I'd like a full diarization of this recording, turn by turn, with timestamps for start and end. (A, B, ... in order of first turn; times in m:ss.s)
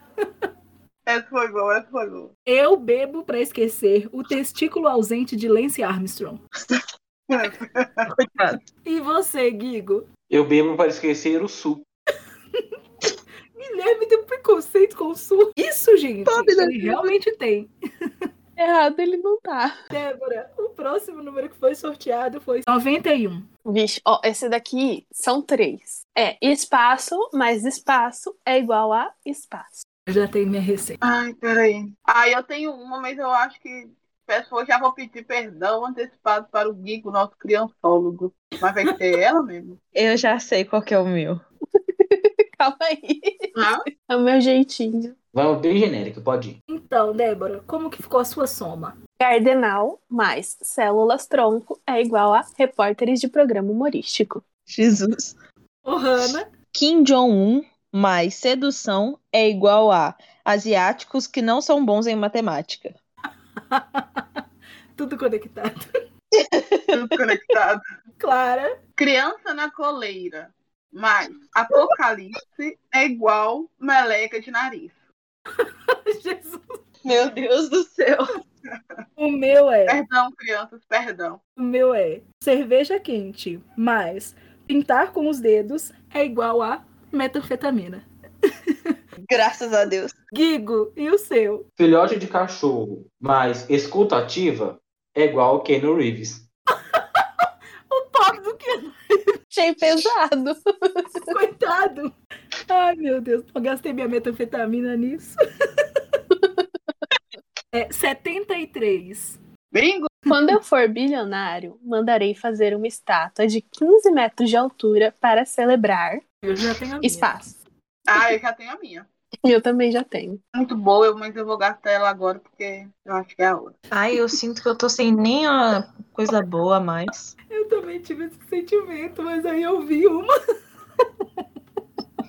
0:01.0-0:02.3 A
0:02.5-0:06.4 B
0:07.3-0:08.0 A
0:08.1-0:08.6 C
0:08.8-0:10.0 B
0:10.3-0:11.8 D
0:13.6-0:17.7 B
0:16.3-0:17.1 C
0:18.6-0:19.7 E
0:19.9-0:23.5 B
0:23.6-0:29.8 E
0:30.1-0:31.0 B
0:31.0-0:39.8 A
0:39.9-0:41.4 C
0:42.0-0:45.1 E
0:43.6-0:43.8 A
0:45.3-0:46.6 D
0:46.7-0:49.0 B
0:49.2-0:54.4 E
0:54.7-0:55.3 C
0:55.8-0:56.5 B
0:56.7-1:02.9 C
1:03.7-1:04.2 B
1:05.0-1:05.9 B
1:06.5-1:06.9 C
1:06.9-1:07.8 A
1:08.2-1:08.8 B
1:09.0-1:15.0 A
1:15.6-1:16.8 B
1:17.0-1:18.3 C
1:19.2-1:20.0 B
1:19.9-1:21.4 A
1:21.6-1:28.0 B
1:28.7-1:29.0 B
1:29.3-1:30.1 C
1:30.3-1:31.6 B
1:31.8-1:36.4 D
1:36.9-1:39.3 B
1:39.5-1:41.3 E
1:41.3-1:42.1 B
1:42.7-1:45.4 B
1:47.7-1:49.4 B
1:49.7-1:50.1 A
1:50.3-1:56.2 E
1:56.4-1:57.3 B
1:57.0-1:57.5 E
1:58.1-1:59.1 A
1:59.4-2:00.4 E
2:00.5-2:03.8 A
2:03.9-2:07.3 C
2:07.5-2:10.3 B